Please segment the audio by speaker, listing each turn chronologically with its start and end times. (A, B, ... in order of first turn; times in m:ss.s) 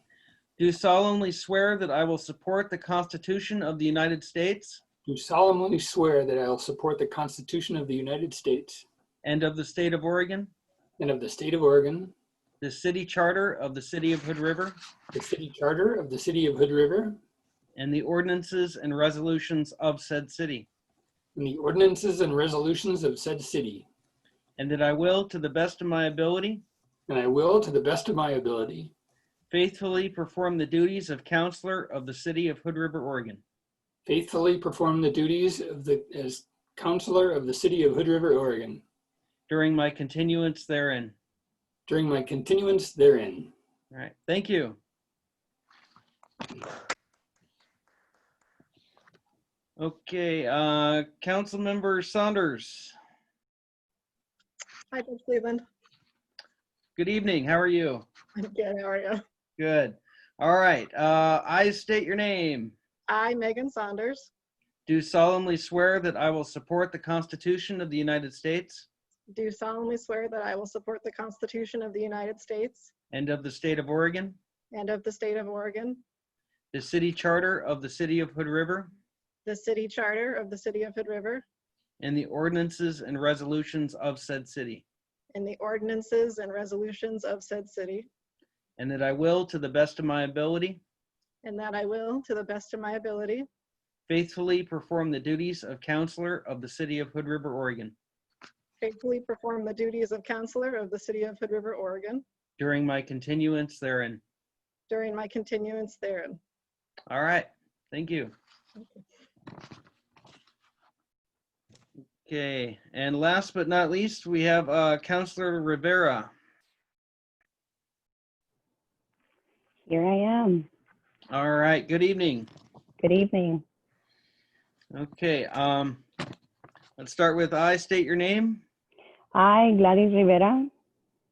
0:00.6-0:04.8 A
0:05.0-0:08.8 B
0:09.2-0:10.5 A
0:11.0-0:12.1 B
0:12.6-0:14.8 A
0:15.1-0:17.2 B
0:17.8-0:20.7 A
0:21.3-0:23.9 B
0:24.6-0:26.6 A
0:27.1-0:28.9 B
0:29.5-0:33.4 A
0:34.0-0:38.8 B
0:39.5-0:41.1 A
0:41.9-0:43.5 B
0:43.9-0:44.8 A
0:49.8-0:52.9 A
0:54.9-0:55.6 C
0:57.0-0:58.0 A
0:58.4-0:59.2 C
0:59.6-1:02.7 A
1:03.1-1:04.3 C
1:04.9-1:08.9 A
1:09.3-1:12.9 C
1:13.1-1:14.4 A
1:14.7-1:16.0 C
1:16.7-1:18.9 A
1:19.4-1:21.4 C
1:22.0-1:24.8 A
1:25.3-1:28.1 C
1:28.8-1:30.8 A
1:31.4-1:33.5 C
1:34.1-1:37.9 A
1:38.8-1:42.2 C
1:42.6-1:44.2 A
1:44.9-1:46.4 C
1:47.1-1:48.3 A
1:52.2-1:56.3 A
1:59.9-2:00.7 D
2:01.3-2:02.5 A
2:03.0-2:03.6 D
2:04.9-2:06.0 A
2:07.0-2:08.6 A
2:09.3-2:10.7 D